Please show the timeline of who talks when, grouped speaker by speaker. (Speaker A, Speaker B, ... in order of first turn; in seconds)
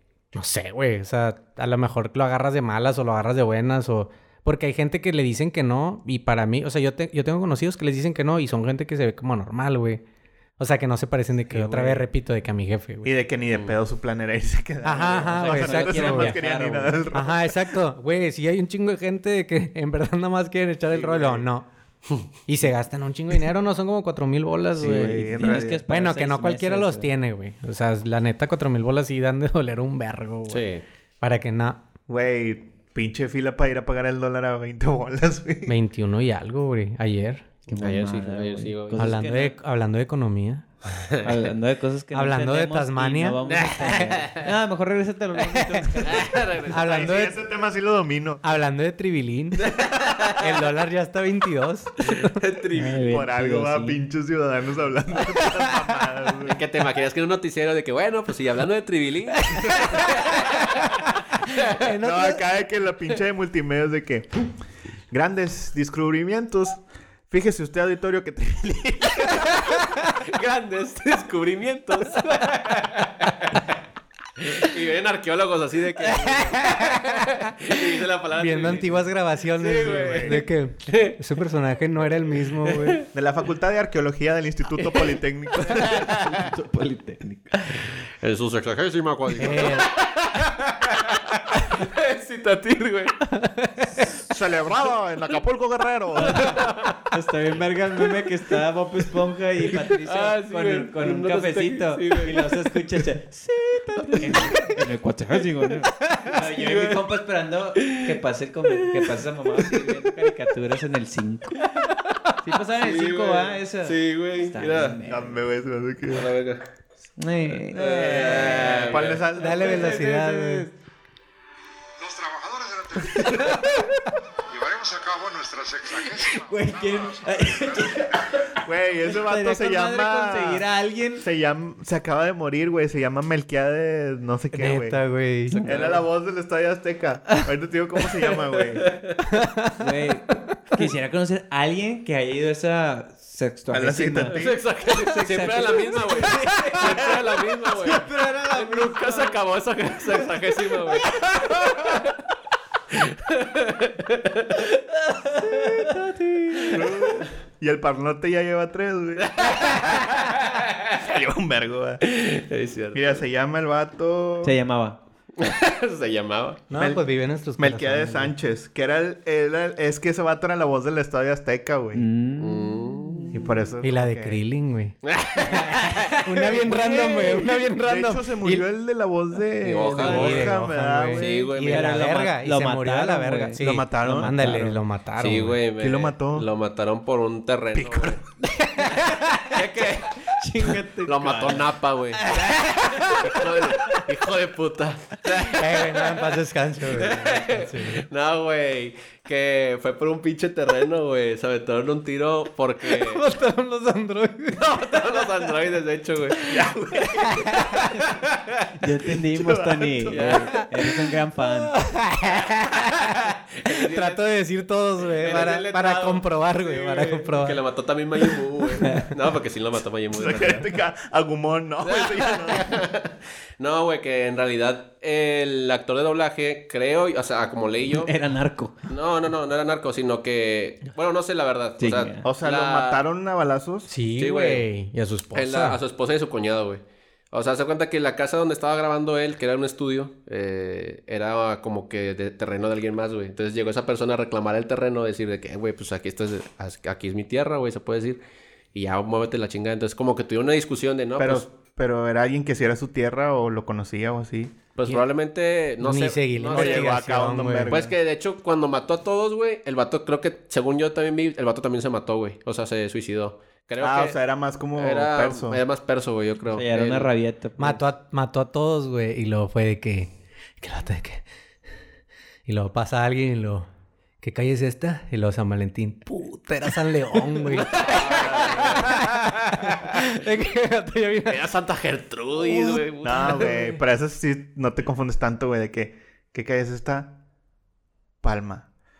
Speaker A: 0.3-10.0, 10.6-13.1, 14.8-16.4, 17.1-21.7, 22.4-30.6, 31.2-31.8, 35.6-37.4, 39.0-40.6, 42.1-44.4, 45.5-45.9, 46.7-47.4, 48.4-49.7, 50.3-52.4, 59.4-60.6, 61.5-62.4, 76.2-77.8, 78.3-83.0, 89.4-89.9, 93.3-94.1, 119.3-120.7, 134.5-135.6, 139.3-139.8, 166.7-168.3, 173.8-178.6, 180.0-185.6, 188.7-189.5, 192.3-193.2, 195.4-198.0, 202.9-205.2, 207.2-208.0, 211.6-217.6, 233.9-235.8, 255.8-257.7, 267.6-271.2, 272.4-273.7, 274.2-281.5, 282.6-283.7
Speaker B: 11.5-12.0, 13.0-17.8, 20.9-21.4, 24.8-25.8, 32.1-35.7, 46.7-48.4, 53.0-56.6, 62.0-64.5, 65.1-66.8, 67.3-69.7, 79.8-80.4, 83.1-86.1, 94.2-96.6, 115.0-116.3, 117.7-120.0, 128.6-135.0, 135.6-138.9, 143.7-144.6, 156.7-160.1, 160.9-162.0, 162.9-164.6, 167.6-172.1, 173.3-174.4, 177.8-181.5, 183.6-184.7, 185.8-186.5, 187.7-188.2, 206.5-207.7, 209.3-210.5, 220.1-222.8, 232.2-233.9, 251.2-254.6, 256.5-257.9, 263.8-265.6, 278.0-278.9, 282.7-287.2, 288.2-288.7
Speaker C: 15.1-17.0, 24.8-27.1, 37.7-39.5, 41.2-46.5, 52.7-54.0, 85.8-87.8, 96.2-111.7, 112.4-115.4, 117.2-120.7, 126.2-131.2, 139.7-149.4, 149.9-151.3, 155.1-157.0, 164.4-165.0, 171.9-173.4, 176.6-176.9, 180.0-180.4, 181.7-184.7, 189.6-193.1, 208.8-211.8, 215.3-215.7, 218.8-219.1, 227.9-228.8, 231.8-232.3, 266.5-267.8
Speaker D: 30.5-30.8, 37.8-39.2, 41.0-41.5, 46.0-46.8, 49.6-50.4, 52.0-53.2, 56.4-60.9, 69.3-73.6, 74.4-81.2, 82.6-83.0, 84.8-86.4, 87.7-93.2, 96.2-97.0, 99.7-102.7, 104.0-104.7, 106.3-107.2, 107.8-110.3, 111.6-115.0, 116.1-116.6, 117.7-119.2, 135.5-136.0, 138.9-139.1, 144.3-152.2, 152.9-154.8, 156.6-157.3, 159.2-161.0, 162.0-163.2, 165.4-166.8, 172.4-173.4, 175.0-177.2, 179.6-180.5, 181.2-182.1, 185.2-188.2, 189.5-192.3, 193.1-196.3, 196.9-203.2, 204.6-206.7, 210.1-210.6, 213.6-214.2, 215.1-220.7, 221.8-228.1, 228.9-233.0, 234.2-234.7, 235.3-248.2, 248.7-251.4, 254.8-257.0, 257.7-264.2, 264.7-267.1, 277.4-279.1, 281.3-283.7
Speaker E: 122.0-123.8, 124.4-128.0